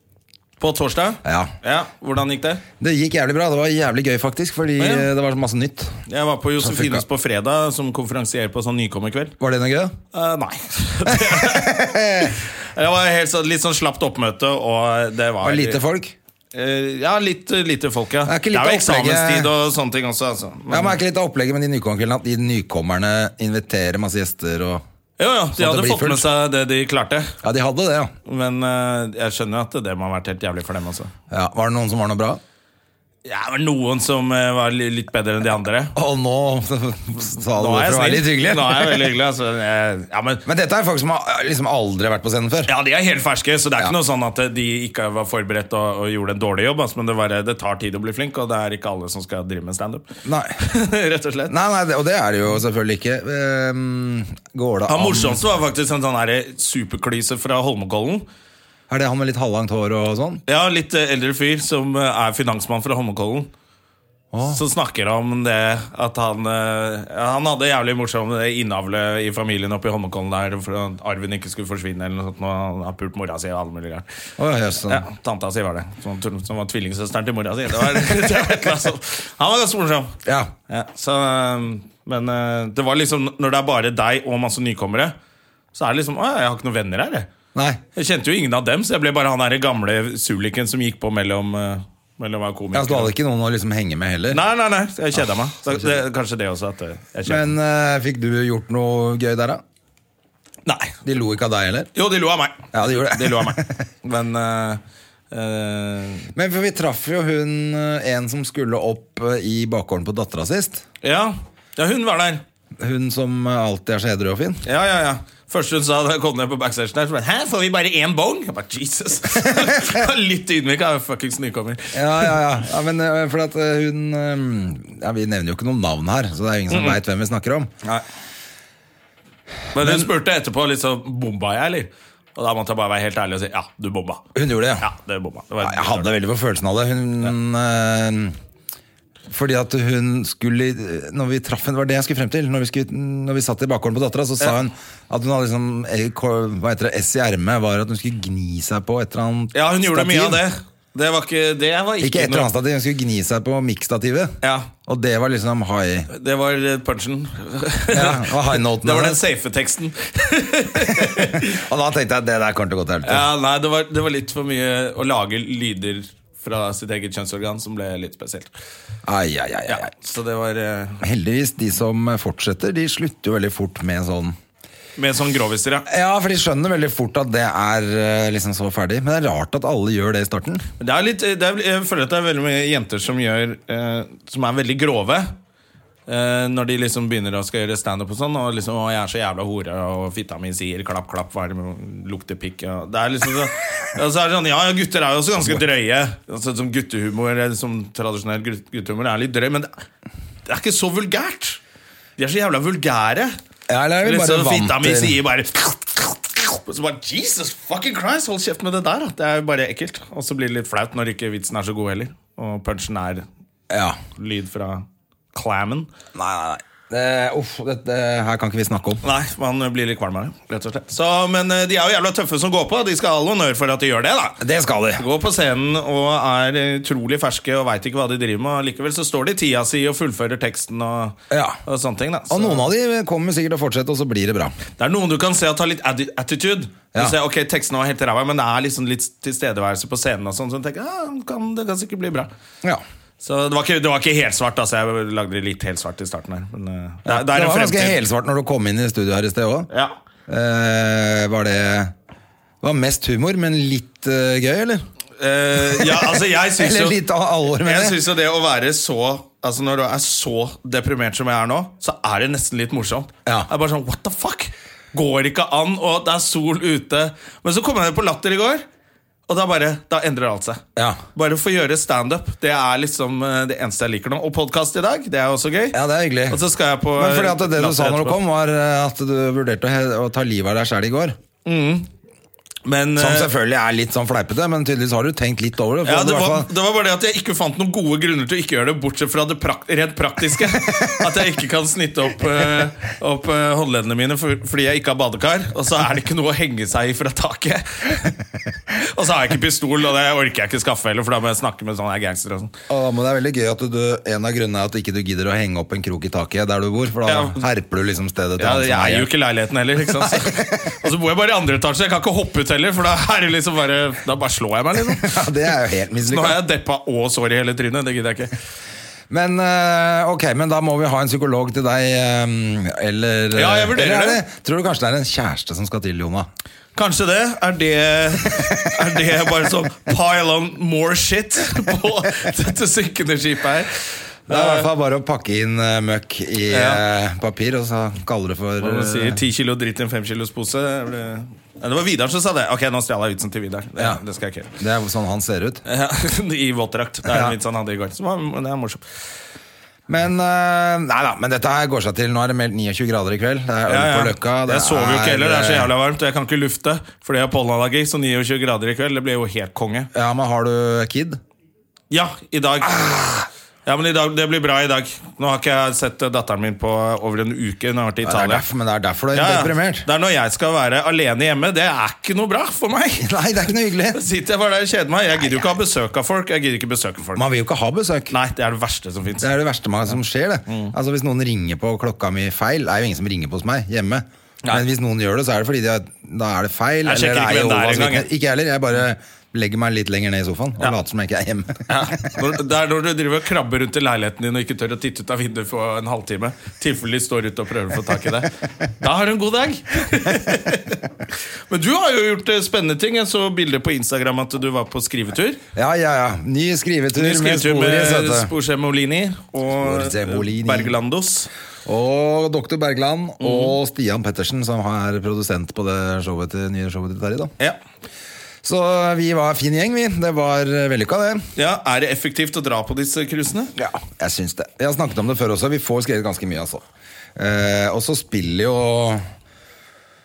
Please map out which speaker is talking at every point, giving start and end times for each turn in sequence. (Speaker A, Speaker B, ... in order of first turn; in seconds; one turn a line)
Speaker A: 0.6-2.6
Speaker B: 1.2-1.5
Speaker B: 2.8-6.0
Speaker A: 4.8-5.1
Speaker A: 6.1-9.3
Speaker B: 6.6-7.0
Speaker B: 9.4-9.9
Speaker A: 10.1-15.8
Speaker B: 11.1-12.4
Speaker B: 15.4-16.1
Speaker A: 16.5-21.0
Speaker B: 18.2-19.5
Speaker B: 20.7-24.8
Speaker A: 25.2-27.3
Speaker B: 25.6-26.3
Speaker B: 27.4-28.1
Speaker A: 28.2-31.1
Speaker B: 31.3-32.4
Speaker A: 33.2-35.9
Speaker B: 35.9-39.1
Speaker A: 37.6-40.4
Speaker B: 40.4-42.7
Speaker A: 42.7-50.0
Speaker B: 50.2-50.6
Speaker A: 50.6-51.5
Speaker B: 51.5-55.4
Speaker A: 54.9-58.2
Speaker B: 58.9-60.4
Speaker A: 60.5-63.5
Speaker B: 64.3-64.6
Speaker A: 64.5-74.0
Speaker B: 74.4-75.0
Speaker A: 74.9-80.1
Speaker B: 80.2-80.5
Speaker A: 80.7-85.1
Speaker A: 85.7-87.3
Speaker B: 87.5-87.8
Speaker A: 88.0-93.1
Speaker B: 92.7-94.4
Speaker A: 94.3-97.5
Speaker B: 95.7-96.0
Speaker B: 97.2-99.6
Speaker A: 100.7-100.9
Speaker B: 101.0-101.9
Speaker A: 101.9-106.3
Speaker B: 102.7-103.8
Speaker B: 106.3-110.8
Speaker A: 111.0-112.4
Speaker B: 112.8-114.6
Speaker A: 114.6-122.4
Speaker B: 121.9-127.7
Speaker A: 126.7-127.0
Speaker B: 129.7-130.1
Speaker A: 129.7-134.2
Speaker B: 134.3-134.9
Speaker A: 134.8-136.1
Speaker B: 135.6-138.3
Speaker B: 139.3-150.4
Speaker A: 149.5-152.5
Speaker B: 152.0-154.3
Speaker A: 154.4-154.7
Speaker B: 154.8-156.1
Speaker A: 156.1-161.6
Speaker B: 157.9-159.2
Speaker B: 160.8-163.3
Speaker A: 163.0-168.5
Speaker B: 169.0-169.9
Speaker A: 169.7-171.0
Speaker B: 171.0-174.4
Speaker A: 175.0-175.8
Speaker B: 175.9-180.7
Speaker A: 180.8-185.3
Speaker A: 186.1-199.7
Speaker A: 200.5-201.6
Speaker A: 202.2-203.3
Speaker B: 203.7-205.2
Speaker A: 204.0-213.2
Speaker B: 213.7-214.0
Speaker A: 214.2-215.9
Speaker B: 216.1-219.0
Speaker A: 219.0-224.4
Speaker B: 224.4-225.0
Speaker A: 225.0-232.6
Speaker B: 231.3-231.6
Speaker B: 232.3-234.5
Speaker A: 234.8-242.3
Speaker A: 243.2-247.9
Speaker B: 247.0-249.7
Speaker B: 250.3-251.9
Speaker B: 252.6-254.9
Speaker A: 255.2-257.0
Speaker B: 255.6-258.0
Speaker A: 257.6-268.6
Speaker A: 269.3-270.6
Speaker B: 270.8-271.0
Speaker A: 271.1-275.8
Speaker B: 275.7-276.4
Speaker A: 276.3-278.2
Speaker B: 277.0-281.2
Speaker A: 281.4-281.9
Speaker A: 282.6-283.3
Speaker B: 282.9-286.5
Speaker A: 285.8-298.1
Speaker A: 298.8-302.5
Speaker B: 302.7-309.1
Speaker A: 307.1-307.4
Speaker A: 308.4-315.2
Speaker B: 309.9-310.9
Speaker B: 314.8-316.4
Speaker A: 316.1-318.3
Speaker B: 319.1-326.3
Speaker A: 323.3-324.2
Speaker A: 326.7-334.7
Speaker B: 328.2-329.0
Speaker B: 334.3-339.2
Speaker A: 336.5-336.8
Speaker A: 338.6-344.5
Speaker B: 344.6-345.6
Speaker A: 345.7-348.8
Speaker B: 347.0-347.3
Speaker B: 349.9-355.7
Speaker A: 353.7-359.9
Speaker B: 359.9-361.2
Speaker A: 361.9-363.1
Speaker B: 362.6-363.2
Speaker A: 363.6-368.4
Speaker B: 368.0-369.9
Speaker A: 369.1-373.1
Speaker B: 373.0-374.0
Speaker A: 373.9-377.2
Speaker B: 375.2-375.5
Speaker B: 377.1-378.1
Speaker A: 378.1-379.3
Speaker B: 379.2-392.2
Speaker A: 380.5-380.7
Speaker A: 386.8-388.1
Speaker A: 391.7-400.8
Speaker A: 401.5-405.4
Speaker B: 405.5-408.3
Speaker A: 407.0-411.3
Speaker B: 409.5-410.7
Speaker B: 411.6-417.3
Speaker A: 413.2-413.6
Speaker B: 418.4-421.3
Speaker A: 421.4-423.5
Speaker B: 423.6-426.6
Speaker B: 427.1-429.0